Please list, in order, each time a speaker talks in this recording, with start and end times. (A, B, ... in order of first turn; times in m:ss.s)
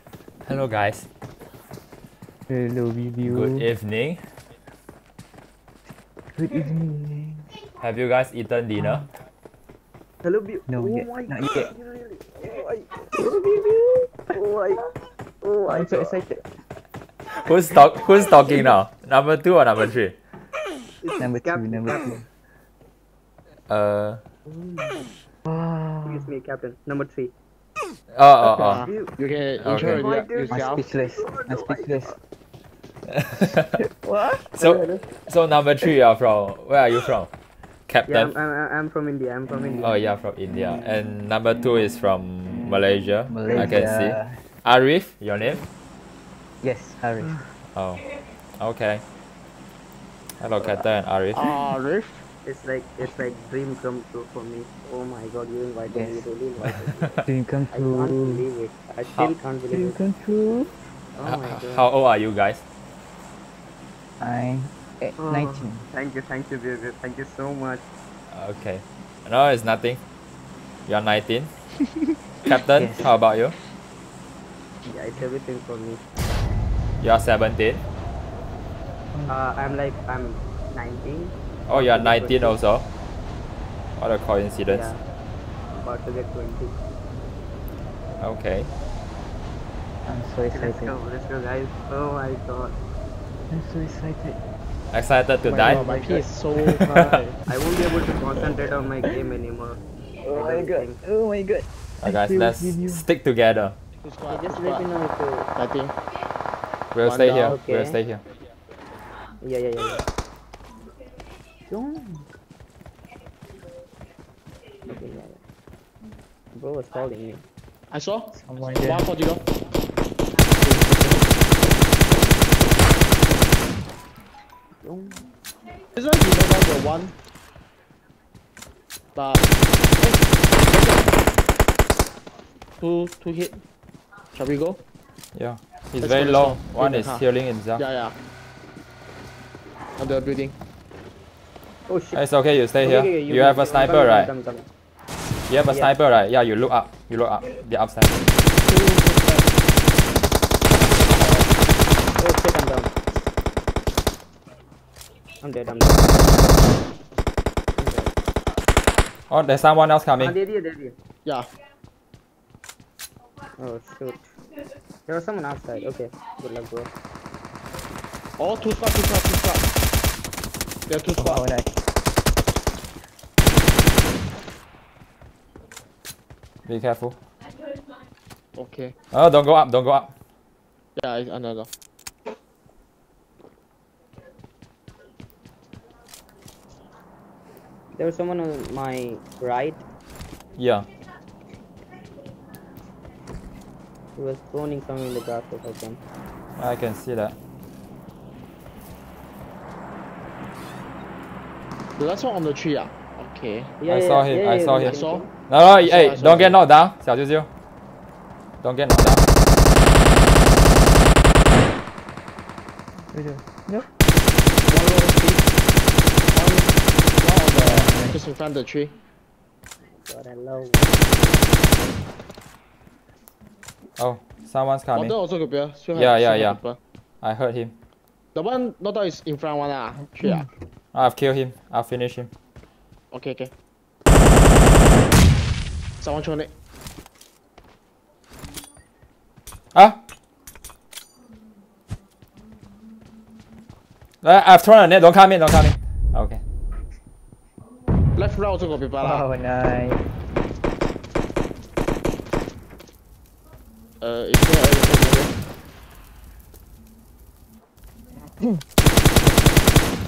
0:00.4-0:01.1 A
0:02.5-0:03.7 B
0:03.2-0:04.2 A
0:06.4-0:07.5 B
0:07.8-0:09.1 A
0:08.8-0:09.0 B
0:10.2-0:13.1 C
0:10.7-0:11.7 B
0:13.1-0:14.2 B
0:14.3-0:14.9 C
0:15.4-0:16.2 C
0:15.7-0:16.4 B
0:17.3-0:20.2 A
0:21.0-0:22.0 C
0:21.2-0:22.3 B
0:23.7-0:24.2 A
0:24.5-0:25.0 C
0:25.5-0:26.3 B
0:26.0-0:27.3 C
0:28.1-0:28.9 A
0:28.6-0:30.8 D
0:28.8-0:29.1 C
0:29.6-0:30.0 A
0:29.7-0:32.2 B
0:29.9-0:32.2 C
0:33.1-0:33.8 A
0:33.8-0:34.4 B
0:34.5-0:37.3 A
0:34.6-0:35.0 C
0:37.9-0:38.3 A
0:38.1-0:40.0 C
0:39.8-0:45.6 A
0:43.3-0:44.4 B
0:46.6-0:47.4 B
0:47.7-0:48.1 A
0:48.6-0:49.0 A
0:50.4-0:51.5 A
0:51.3-0:52.2 D
0:52.4-1:00.0 C
0:55.9-0:56.3 B
0:56.6-0:57.0 A
0:57.2-0:58.4 B
0:59.7-1:00.7 B
1:01.2-1:01.9 C
1:01.2-1:02.6 A
1:04.2-1:05.9 B
1:05.2-1:07.8 C
1:08.3-1:10.0 A
1:10.9-1:11.5 A
1:12.4-1:13.6 A
1:12.7-1:13.1 B
1:14.9-1:16.0 C
1:17.0-1:17.8 A
1:19.3-1:22.6 C
1:21.7-1:22.9 A
1:24.0-1:24.9 A
1:24.7-1:25.0 C
1:25.7-1:26.8 C
1:28.2-1:28.7 A
1:30.1-1:30.9 B
1:30.5-1:32.8 C
1:33.5-1:34.4 B
1:34.9-1:35.8 A
1:35.4-1:37.4 D
1:35.6-1:36.2 B
1:36.9-1:37.2 A
1:37.5-1:39.8 C
1:40.2-1:43.0 B
1:40.3-1:41.0 C
1:42.0-1:43.8 A
1:44.0-1:44.9 D
1:44.3-1:45.5 C
1:45.6-1:46.0 D
1:46.9-1:48.2 A
1:47.0-1:47.6 D
1:47.4-1:48.0 C
1:49.4-1:50.0 C
1:51.7-1:52.3 C
1:54.9-1:55.4 C
1:56.5-1:57.4 C
1:57.9-1:59.5 D
1:58.3-1:59.1 B
2:00.6-2:01.3 B
2:04.8-2:05.2 C
2:06.0-2:07.1 D
2:09.2-2:11.2 D
2:12.8-2:13.6 D
2:14.3-2:14.8 D
2:15.4-2:17.8 A
2:16.0-2:17.2 D
2:17.8-2:18.2 D
2:20.0-2:20.6 D
2:21.9-2:22.2 C
2:22.1-2:24.3 A
2:22.8-2:24.7 C
2:25.5-2:28.1 A
2:25.7-2:25.9 C
2:28.7-2:29.5 D
2:32.2-2:32.9 C
2:35.4-2:36.4 C
2:37.8-2:38.1 D
2:39.3-2:40.4 A
2:40.2-2:41.0 C
2:43.6-2:44.3 C
2:45.1-2:46.9 C
2:48.4-2:49.7 D
2:50.9-2:51.4 D
2:51.2-2:51.7 B
2:56.7-2:57.2 A
2:58.6-2:58.9 D
2:59.1-3:00.1 A
3:01.0-3:01.7 D
3:08.0-3:09.8 C
3:10.6-3:10.9 A
3:14.2-3:16.0 C
3:16.6-3:17.4 A
3:22.0-3:23.7 D
3:23.8-3:25.3 C
3:23.9-3:27.5 A
3:24.8-3:25.2 D
3:25.8-3:26.6 D
3:28.6-3:29.2 A
3:33.1-3:33.9 B
3:34.7-3:35.5 D
3:36.3-3:39.0 D
3:37.6-3:38.2 B
3:39.8-3:41.3 C
3:44.0-3:45.2 A
3:44.9-3:46.8 D
3:45.9-3:46.6 A
3:47.2-3:47.8 A
3:48.4-3:50.5 D
3:50.2-3:50.4 B
3:50.9-3:52.3 A
3:53.1-3:53.5 D
3:56.0-3:56.5 D
3:59.7-4:00.0 A
4:04.2-4:06.4 A
4:08.2-4:09.2 D
4:09.0-4:10.0 B
4:14.0-4:15.4 D
4:19.2-4:19.6 B